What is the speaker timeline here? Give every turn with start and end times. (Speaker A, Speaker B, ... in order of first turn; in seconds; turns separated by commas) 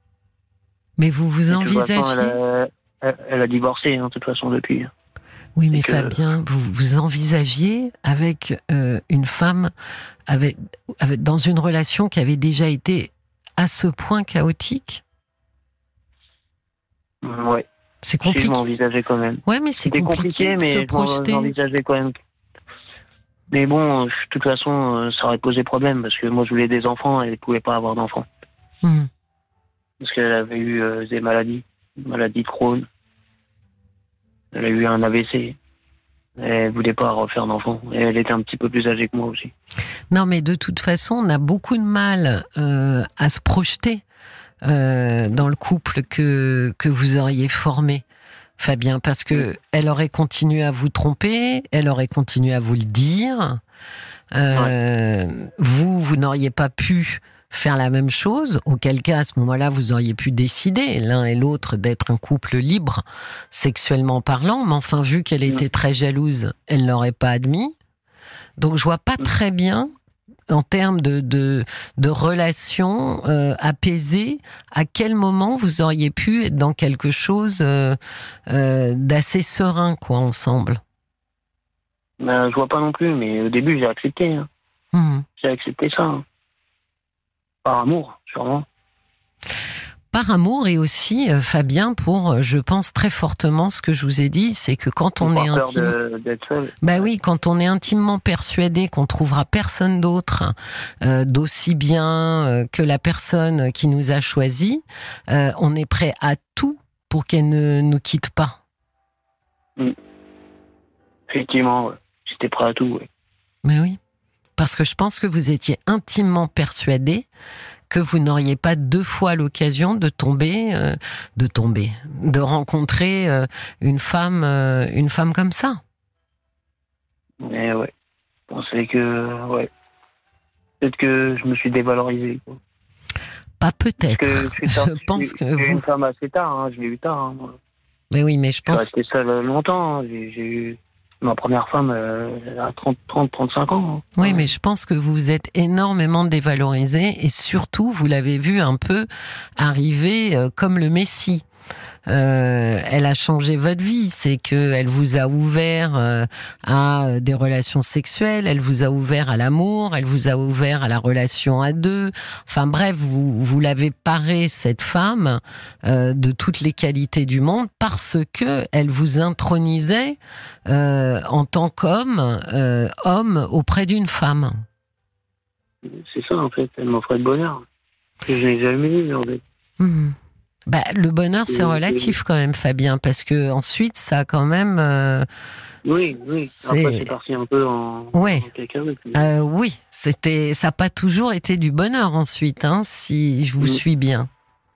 Speaker A: 1.0-2.4, Speaker B: 1.5-4.9, Speaker A: 5.6-9.7, Speaker B: 5.7-6.2, Speaker A: 10.3-15.0, Speaker B: 17.2-17.6, Speaker A: 18.0-18.6, Speaker B: 18.2-22.2, Speaker A: 19.5-21.5, Speaker B: 23.5-28.3, Speaker A: 28.8-29.1, Speaker B: 30.0-32.9, Speaker B: 34.5-35.6, Speaker B: 36.4-39.5, Speaker A: 40.1-44.0, Speaker A: 44.6-48.0, Speaker A: 48.6-53.6, Speaker A: 54.3-67.8, Speaker A: 68.6-69.9, Speaker A: 70.5-80.8, Speaker B: 82.2-84.5, Speaker A: 84.9-85.2, Speaker B: 85.4-86.2, Speaker B: 87.6-88.7, Speaker A: 90.1-96.0, Speaker B: 95.2-97.1, Speaker A: 96.8-108.6, Speaker B: 111.3-113.1, Speaker A: 113.6-114.0, Speaker A: 114.6-117.3, Speaker A: 117.9-125.8, Speaker B: 127.4-127.9, Speaker B: 128.5-129.7, Speaker B: 130.8-132.6, Speaker A: 133.6-135.8, Speaker B: 134.0-137.6, Speaker A: 138.1-138.9, Speaker B: 138.7-144.5, Speaker A: 144.2-151.4, Speaker A: 152.1-174.6, Speaker B: 175.8-177.6, Speaker B: 178.3-179.4, Speaker A: 179.8-180.2, Speaker A: 180.7-185.3, Speaker B: 181.5-182.2, Speaker B: 185.8-189.3, Speaker A: 186.0-187.1, Speaker A: 188.1-188.5, Speaker A: 189.1-194.3